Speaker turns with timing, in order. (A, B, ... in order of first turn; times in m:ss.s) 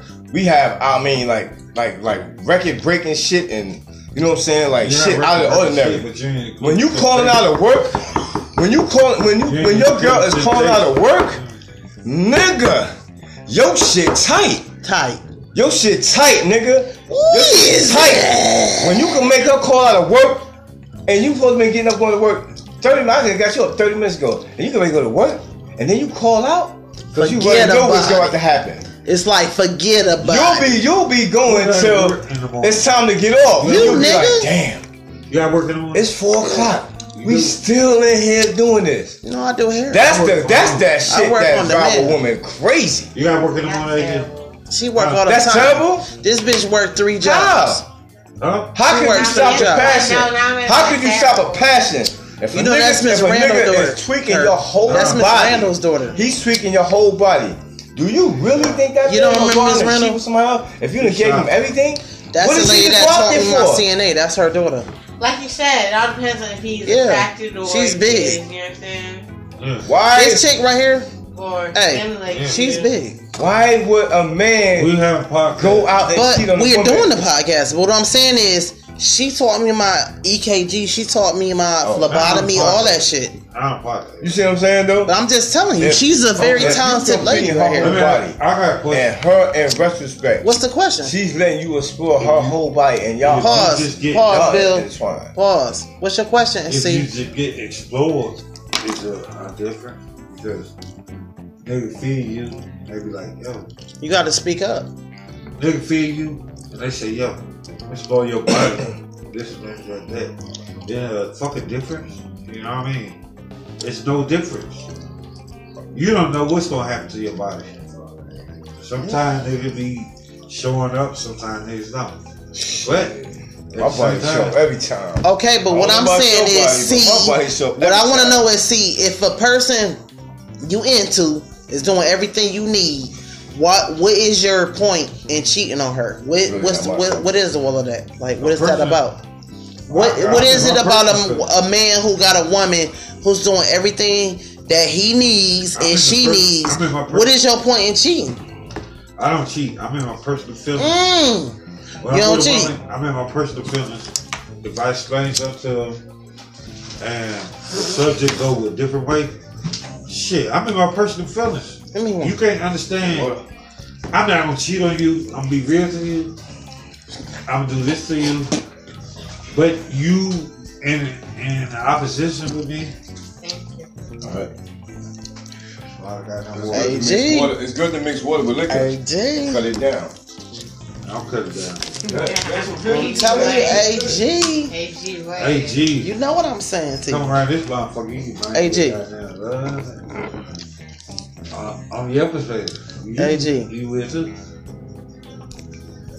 0:00.3-0:06.1 A
0:04.8-0:07.5 B
0:06.6-0:11.4 A
0:09.4-0:11.5 B
0:12.0-0:12.9 A
0:13.5-0:14.7 A
0:14.8-0:15.2 C
0:15.5-0:20.5 A
0:17.1-0:19.2 C
0:21.1-0:28.9 A
0:27.2-0:28.4 C
0:29.0-0:30.8 C
0:30.2-0:34.8 A
0:31.4-0:32.9 B
0:33.6-0:34.3 B
0:33.6-0:34.5 C
0:35.3-0:36.1 B
0:35.9-0:39.2 A
0:37.1-0:37.6 B
0:39.2-0:40.1 C
0:39.9-0:43.1 A
0:40.0-0:41.0 B
0:41.1-0:42.2 C
0:43.1-0:44.3 B
0:43.4-0:44.6 D
0:44.7-0:47.8 C
0:45.0-0:45.4 B
0:45.2-0:46.1 A
0:47.2-0:47.8 A
0:48.4-0:48.8 B
0:48.7-1:03.9 A
0:48.9-0:50.2 C
0:48.9-0:51.9 D
0:52.5-0:56.2 C
0:54.9-0:55.7 B
0:59.0-1:00.2 C
1:01.0-1:01.5 B
1:02.3-1:04.9 C
1:05.2-1:09.3 D
1:06.8-1:08.4 C
1:09.6-1:09.9 B
1:09.9-1:10.5 A
1:10.1-1:11.1 C
1:11.3-1:13.0 D
1:11.7-1:13.2 C
1:12.3-1:12.6 B
1:13.4-1:15.0 A
1:14.8-1:16.1 B
1:15.5-1:17.2 A
1:16.1-1:23.4 C
1:21.8-1:22.2 A
1:22.0-1:24.4 B
1:24.2-1:25.1 A
1:25.1-1:28.1 C
1:25.8-1:30.5 A
1:26.4-1:26.8 B
1:27.8-1:29.1 B
1:30.4-1:31.1 C
1:31.0-1:35.3 A
1:32.2-1:32.6 B
1:33.2-1:34.4 B
1:33.4-1:37.1 C
1:36.7-1:40.7 B
1:41.6-1:43.7 B
1:44.0-1:44.9 C
1:45.6-1:50.3 B
1:50.9-1:53.2 B
1:53.8-1:54.8 B
1:55.9-1:57.8 B
1:58.8-2:02.2 B
2:02.7-2:03.2 B
2:03.7-2:04.6 B
2:03.8-2:08.5 A
2:05.2-2:10.0 C
2:10.6-2:19.2 C
2:16.4-2:17.4 A
2:18.4-2:19.0 B
2:19.9-2:21.5 B
2:19.9-2:28.4 C
2:25.7-2:27.3 B
2:29.2-2:31.0 B
2:30.8-2:32.7 C
2:32.0-2:34.1 B
2:34.6-2:36.0 B
2:37.0-2:39.3 B
2:40.1-2:43.3 B
2:41.9-2:42.4 C
2:43.0-2:43.4 A
2:44.1-2:46.3 B
2:47.5-2:48.5 B
2:49.5-2:52.9 B
2:53.4-2:53.9 D
2:54.2-2:54.5 A
2:56.0-2:57.1 B
2:56.5-3:00.1 A
2:56.7-2:57.6 C
2:58.7-2:59.7 C
3:01.0-3:04.2 B
3:02.0-3:05.9 D
3:02.9-3:04.7 C
3:05.4-3:06.1 B
3:06.0-3:07.3 C
3:07.1-3:10.2 B
3:08.5-3:09.0 C
3:11.5-3:14.3 B
3:13.2-3:13.7 C